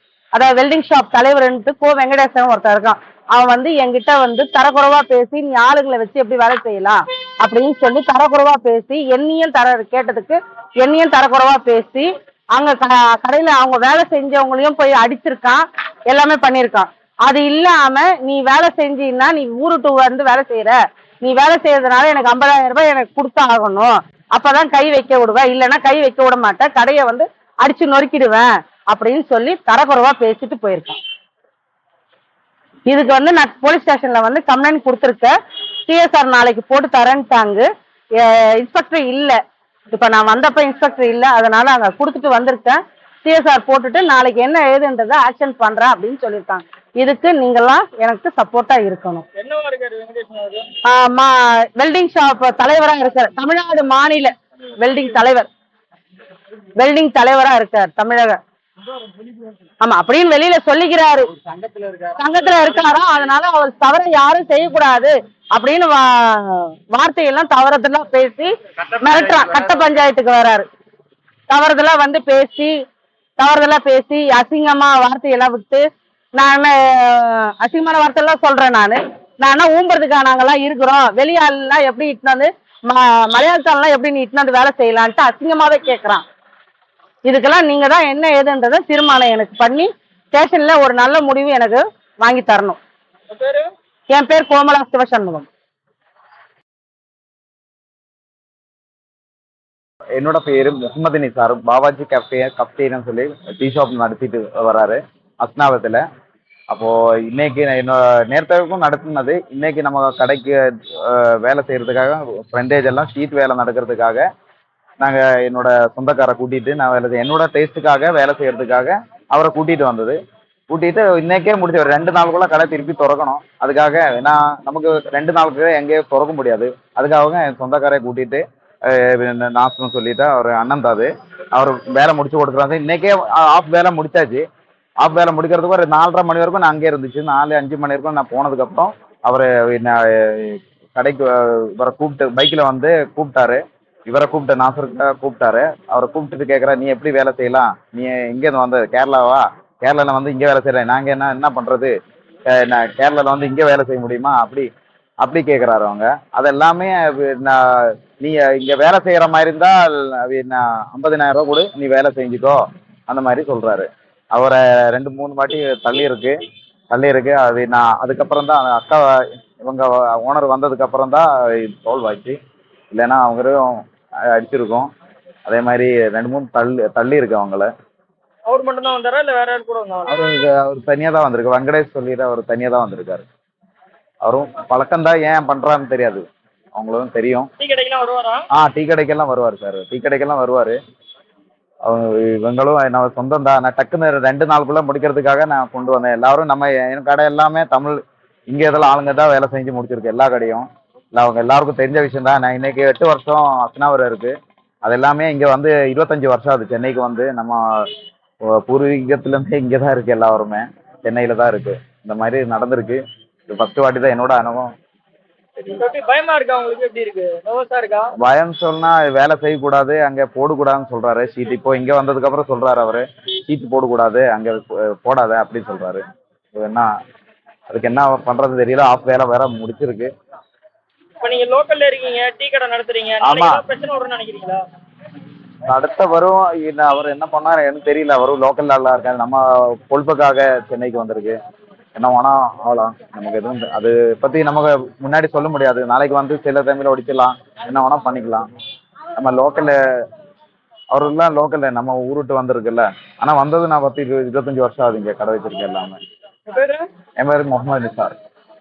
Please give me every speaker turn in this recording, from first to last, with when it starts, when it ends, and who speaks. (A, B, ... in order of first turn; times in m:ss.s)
0:00.4-0:31.0 A
0:32.9-0:35.3 A
0:35.9-0:37.7 A
0:38.2-0:39.4 A
0:39.9-0:49.2 A
0:49.4-0:50.7 B
0:50.8-0:55.5 A
0:56.8-0:58.4 A
0:59.8-1:01.3 A
1:02.2-1:10.7 A
1:11.5-1:12.7 A
1:13.4-1:15.8 A
1:16.4-1:26.2 A
1:27.3-1:32.8 A
1:33.3-1:33.7 B
1:34.1-1:35.5 A
1:40.2-1:46.0 C
1:46.7-1:54.3 C
1:55.0-2:00.2 C
2:00.7-2:14.4 C
2:15.0-2:31.9 C
2:32.5-2:34.7 C
2:35.2-2:46.4 C
2:46.9-2:52.4 C
2:52.9-2:54.9 C
2:55.5-2:57.7 C
2:58.5-3:00.1 B
3:00.1-3:03.2 C
3:04.2-3:06.2 C
3:06.8-3:07.5 C
3:07.6-3:08.4 B
3:08.5-3:10.8 C
3:11.8-3:18.0 C
3:18.5-3:27.9 C
3:28.4-3:34.7 C
3:35.7-3:38.1 B
3:38.2-3:46.0 C
3:46.6-3:46.9 C
3:47.7-3:50.1 C
3:51.2-3:54.6 B
3:53.2-3:53.6 C
3:55.7-4:01.4 C
4:02.0-4:08.4 C
4:09.2-4:09.8 C
4:10.9-4:16.0 C
4:16.5-4:16.9 B
4:17.2-4:18.2 C